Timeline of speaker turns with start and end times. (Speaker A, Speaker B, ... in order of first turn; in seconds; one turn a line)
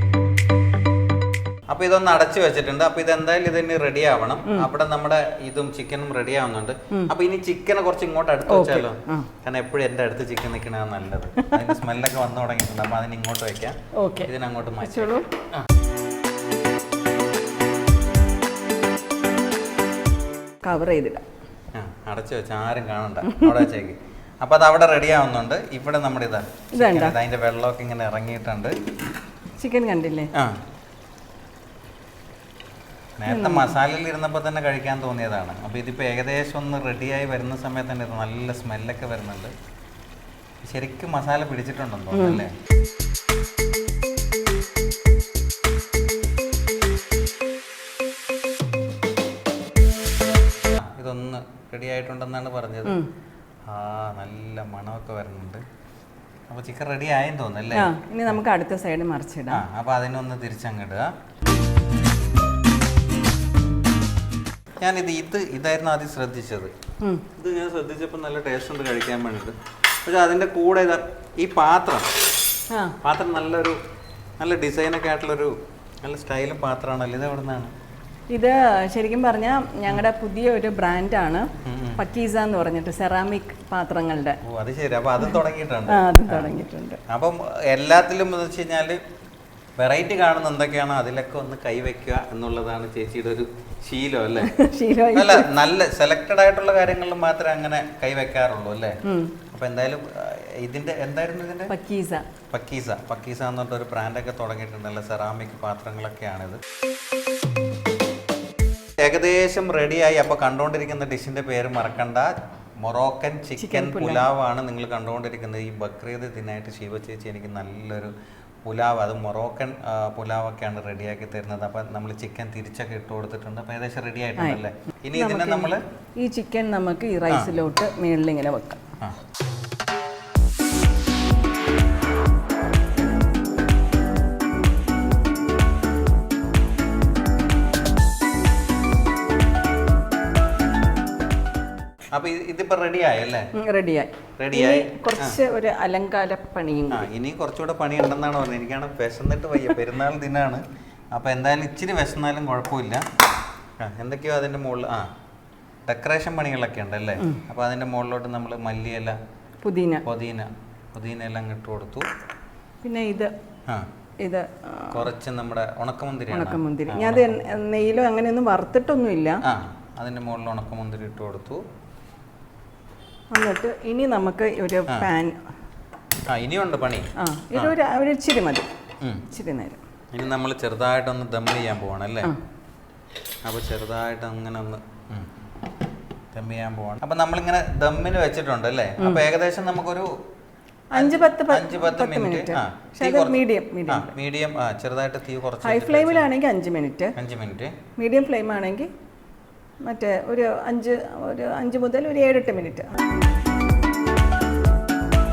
Speaker A: 1.7-15.7
Speaker B: 8.5-9.3
Speaker B: 11.4-11.7
Speaker B: 13.9-15.3
Speaker B: 20.6-21.2
Speaker A: 21.7-28.8
Speaker B: 23.2-23.6
Speaker B: 26.7-27.1
Speaker B: 29.6-30.3
Speaker A: 30.3-30.6
Speaker A: 33.2-39.5
Speaker B: 33.3-33.7
Speaker A: 40.6-42.5
Speaker B: 42.1-42.4
Speaker A: 50.7-53.0
Speaker A: 53.6-55.6
Speaker A: 56.5-57.9
Speaker B: 57.7-59.6
Speaker A: 59.5-61.1
Speaker A: 64.8-66.7
Speaker A: 67.3-72.1
Speaker B: 72.7-73.0
Speaker A: 73.0-73.8
Speaker A: 74.4-77.7
Speaker B: 78.3-84.4
Speaker A: 81.6-82.0
Speaker A: 84.4-86.5
Speaker B: 85.9-87.0
Speaker A: 87.1-89.0
Speaker A: 89.8-94.5
Speaker B: 94.4-95.5
Speaker A: 95.1-99.0
Speaker B: 99.0-99.3
Speaker A: 99.5-101.7
Speaker B: 101.7-102.2
Speaker A: 102.5-106.6
Speaker A: 109.0-118.1
Speaker B: 113.6-114.3
Speaker A: 118.6-125.8
Speaker B: 125.1-128.8
Speaker A: 142.1-143.5
Speaker B: 143.5-147.1
Speaker A: 144.4-145.4
Speaker A: 146.9-153.1
Speaker A: 153.8-155.1
Speaker A: 155.9-159.2
Speaker B: 159.6-160.0
Speaker A: 160.0-162.1
Speaker B: 162.8-163.3
Speaker B: 164.2-165.1
Speaker A: 164.9-167.4
Speaker B: 166.3-169.4
Speaker A: 169.4-171.6
Speaker B: 173.3-175.4
Speaker A: 176.3-177.7
Speaker B: 177.2-178.7
Speaker B: 179.2-179.8
Speaker A: 180.1-182.3
Speaker A: 183.4-185.3
Speaker A: 186.3-190.1
Speaker B: 190.9-194.1
Speaker A: 190.9-196.3
Speaker B: 195.6-197.1
Speaker A: 197.2-197.7
Speaker B: 198.0-198.9
Speaker B: 199.8-202.9